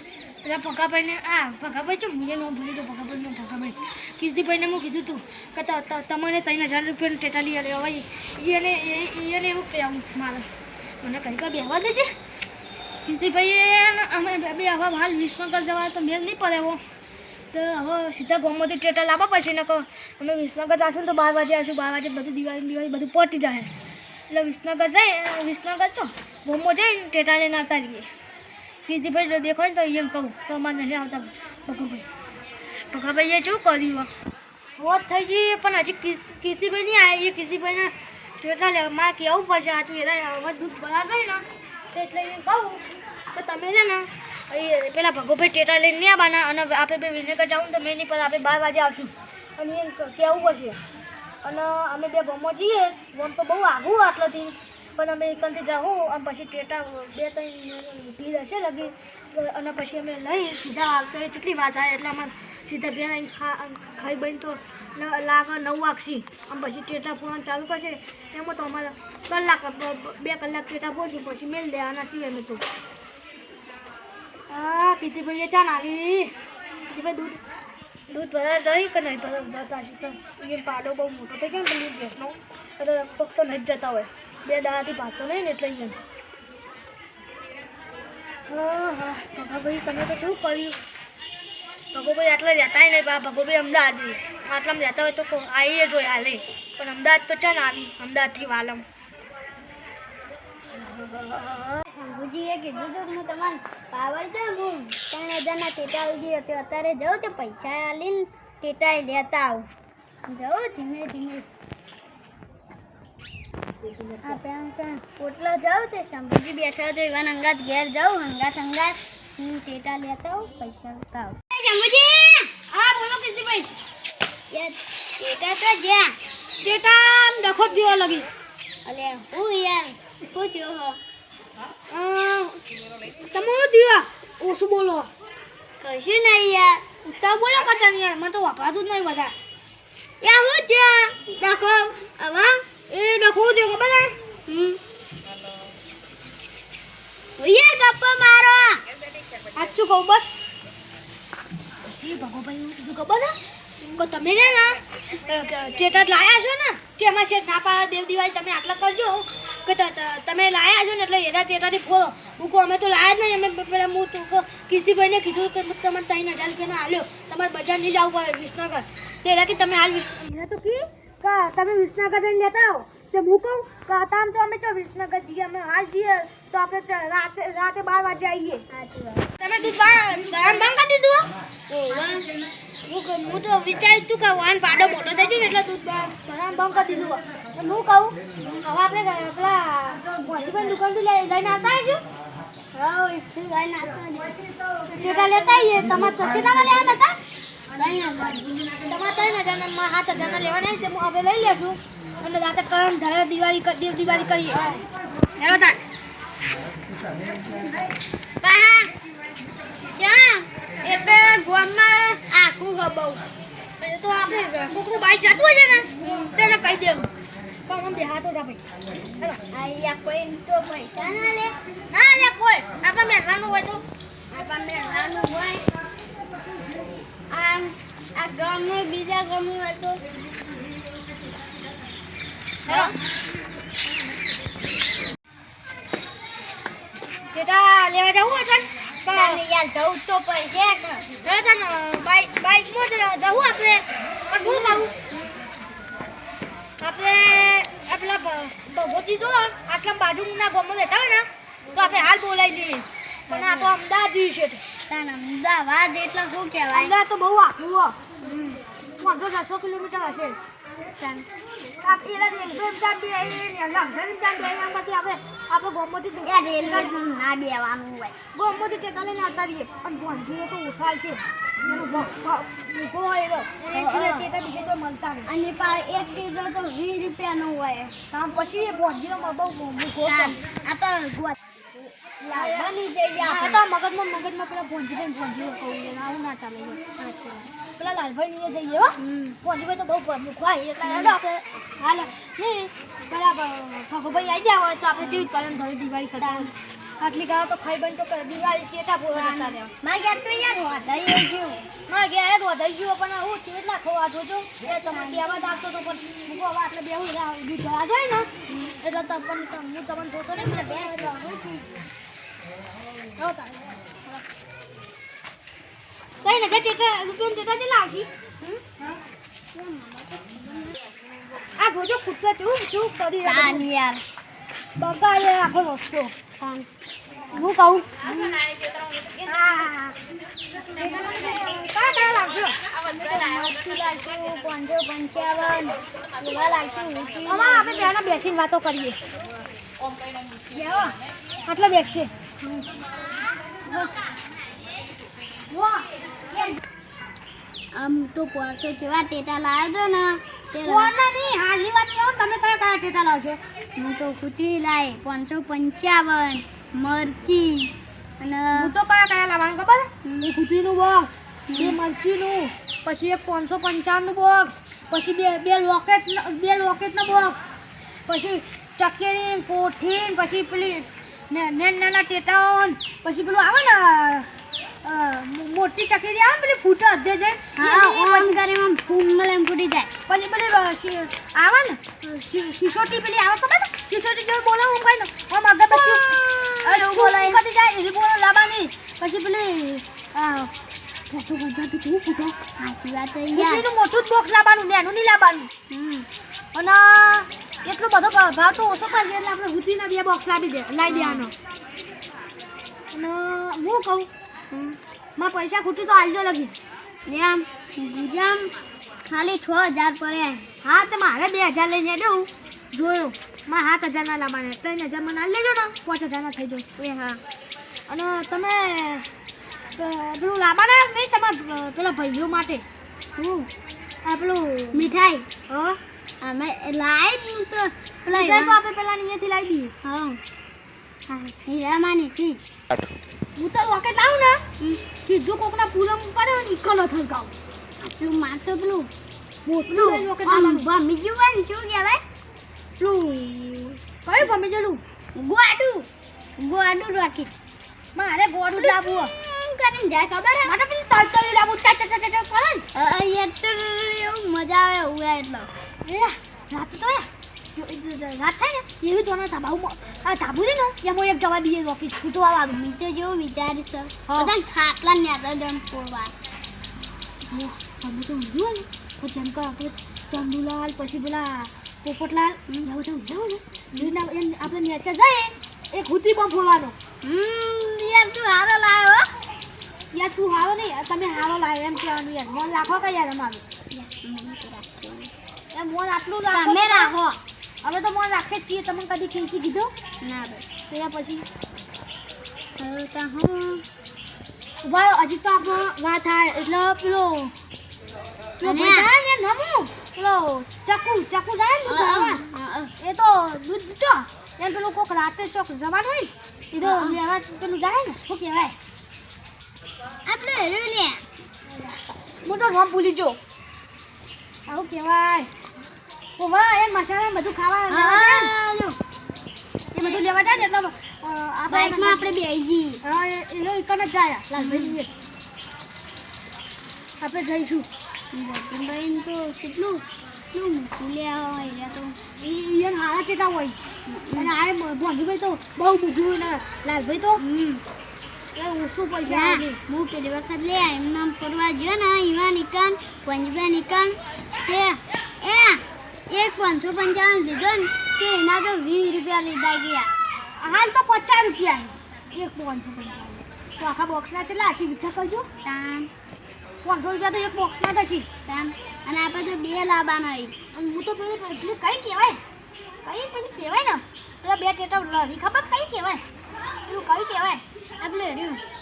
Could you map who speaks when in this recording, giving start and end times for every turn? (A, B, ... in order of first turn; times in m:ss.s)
0:00.4-0:10.5 A
0:11.0-0:12.1 A
0:13.1-0:16.8 A
0:17.5-0:23.7 A
0:24.3-0:28.1 A
0:28.9-0:32.0 A
0:32.9-0:34.1 A
0:34.8-0:50.8 A
0:51.4-1:12.6 A
1:14.5-1:16.3 A
1:16.9-1:17.4 A
1:18.1-1:26.0 A
1:28.5-1:30.8 A
1:31.9-1:38.8 A
1:40.8-1:41.8 A
1:41.8-1:49.7 B
1:50.3-1:51.5 B
1:54.2-2:02.5 B
2:02.7-2:03.7 A
2:04.5-2:06.2 B
2:06.6-2:08.3 A
2:08.8-2:11.0 B
2:11.9-2:12.6 A
2:13.3-2:15.1 A
2:15.8-2:16.8 B
2:17.0-2:19.3 A
2:20.2-2:22.6 B
2:22.9-2:24.2 A
2:24.5-2:24.8 B
2:27.4-2:28.8 B
2:29.5-2:30.3 A
2:31.9-2:33.4 A
2:33.9-2:58.6 A
2:58.7-2:59.3 B
2:59.4-3:02.1 A
3:01.7-3:02.1 B
3:02.9-3:12.0 A
3:12.7-3:14.4 B
3:14.9-3:17.2 A
3:17.8-3:18.7 B
3:18.8-3:24.8 A
3:25.4-3:25.8 A
3:28.4-3:28.9 B
3:30.0-3:33.2 B
3:33.8-3:37.1 A
3:36.0-3:36.4 B
3:37.7-3:38.6 A
3:39.5-3:41.6 B
3:41.9-3:43.8 A
3:44.3-3:45.7 B
3:47.3-3:50.0 B
3:52.7-3:53.0 A
3:52.7-3:52.9 B
3:57.3-3:59.4 A
3:59.1-4:01.0 B
4:01.2-4:04.9 A
4:04.4-4:05.4 B
4:06.8-4:14.6 A
4:13.3-4:13.7 B
4:14.9-4:17.0 B
4:16.7-4:18.0 A
4:18.2-4:18.6 B
4:19.0-4:20.4 A
4:20.9-4:21.3 B
4:21.8-4:27.0 A
4:26.2-4:28.2 B
4:28.3-4:35.3 A
4:33.7-4:34.3 B
4:35.3-4:38.0 B
4:38.1-4:40.4 A
4:40.0-4:41.4 B
4:42.2-4:47.0 A
4:42.3-4:43.6 B
4:47.0-4:47.4 B
4:47.6-4:59.7 A
4:49.0-4:49.4 B
4:50.9-4:51.2 B
4:55.0-4:55.3 B
4:56.2-4:56.5 B
4:59.1-5:01.6 B
5:01.9-5:08.3 A
5:04.8-5:05.4 B
5:08.5-5:08.7 B
5:08.8-5:11.1 A
5:10.4-5:11.7 B
5:13.2-5:13.6 A
5:16.2-5:18.1 A
5:19.5-5:20.6 B
5:21.6-5:23.7 A
5:23.2-5:24.0 B
5:24.8-5:26.1 A
5:26.4-5:26.7 B
5:27.3-5:28.2 A
5:29.2-5:30.0 A
5:30.7-5:32.6 A
5:32.9-5:37.9 B
5:37.3-5:39.0 A
5:40.5-5:40.9 A
5:41.5-5:42.1 A
5:45.5-5:46.6 A
5:47.7-5:51.0 B
5:50.6-5:53.4 A
5:53.8-5:58.7 B
5:58.6-6:07.5 A
6:00.0-6:00.3 B
6:01.5-6:01.8 B
6:08.1-6:14.3 A
6:14.8-6:18.4 A
6:17.6-6:19.9 B
6:20.1-6:30.5 A
6:25.7-6:27.4 B
6:31.1-6:32.4 A
6:32.6-6:33.7 B
6:33.3-6:35.5 A
6:35.7-6:36.1 B
6:36.5-6:41.3 A
6:40.9-6:41.3 B
6:42.9-6:44.1 A
6:44.5-6:44.8 B
6:45.2-6:46.6 A
6:47.1-6:48.5 B
6:49.1-6:50.5 B
6:50.6-6:56.6 A
6:56.8-6:57.2 B
6:57.9-6:59.1 A
6:59.8-7:02.6 A
7:03.2-7:03.5 B
7:04.0-7:04.9 A
7:04.7-7:05.3 B
7:05.5-7:05.8 A
7:06.2-7:08.6 B
7:08.1-7:09.7 A
7:09.8-7:10.2 B
7:11.1-7:12.4 B
7:13.4-7:14.4 A
7:15.0-7:17.3 A
7:17.8-7:18.9 B
7:19.4-7:20.7 A
7:19.7-7:22.0 B
7:22.8-7:24.8 A
7:25.2-7:25.9 B
7:26.4-7:27.3 B
7:28.0-7:29.1 A
7:28.6-7:30.5 B
7:30.4-7:32.6 A
7:32.7-7:35.5 B
7:35.8-7:42.6 A
7:42.5-7:46.1 B
7:44.1-7:44.3 A
7:47.2-7:56.8 A
7:57.0-7:59.1 B
7:59.9-8:03.4 A
8:03.7-8:05.1 B
8:05.5-8:07.0 A
8:06.3-8:07.2 B
8:07.6-8:09.7 A
8:10.0-8:10.4 B
8:10.7-8:11.3 A
8:12.6-8:13.6 B
8:14.6-8:17.3 A
8:18.4-8:22.2 A
8:18.4-8:18.9 B
8:21.7-8:22.7 B
8:22.8-8:28.6 A
8:26.6-8:27.0 B
8:30.1-8:31.0 B
8:31.5-8:33.2 A
8:34.5-8:35.3 A
8:36.2-8:38.3 A
8:37.7-8:38.8 B
8:39.7-8:42.1 A
8:39.8-8:40.0 B
8:41.5-8:42.8 B
8:42.8-8:44.9 A
8:44.4-8:44.8 B
8:47.0-8:47.7 A
8:48.1-8:52.0 B
8:52.2-8:53.6 A
8:53.9-8:54.3 B
8:54.2-8:57.2 A
8:57.2-8:57.6 B
8:58.4-8:59.6 A
8:59.0-9:10.0 B
9:10.4-9:15.3 A
9:15.4-9:15.9 B
9:16.6-9:18.1 A
9:18.3-9:20.4 B
9:20.5-9:22.2 A
9:22.8-9:26.0 A
9:26.7-9:27.4 A
9:27.8-9:28.4 B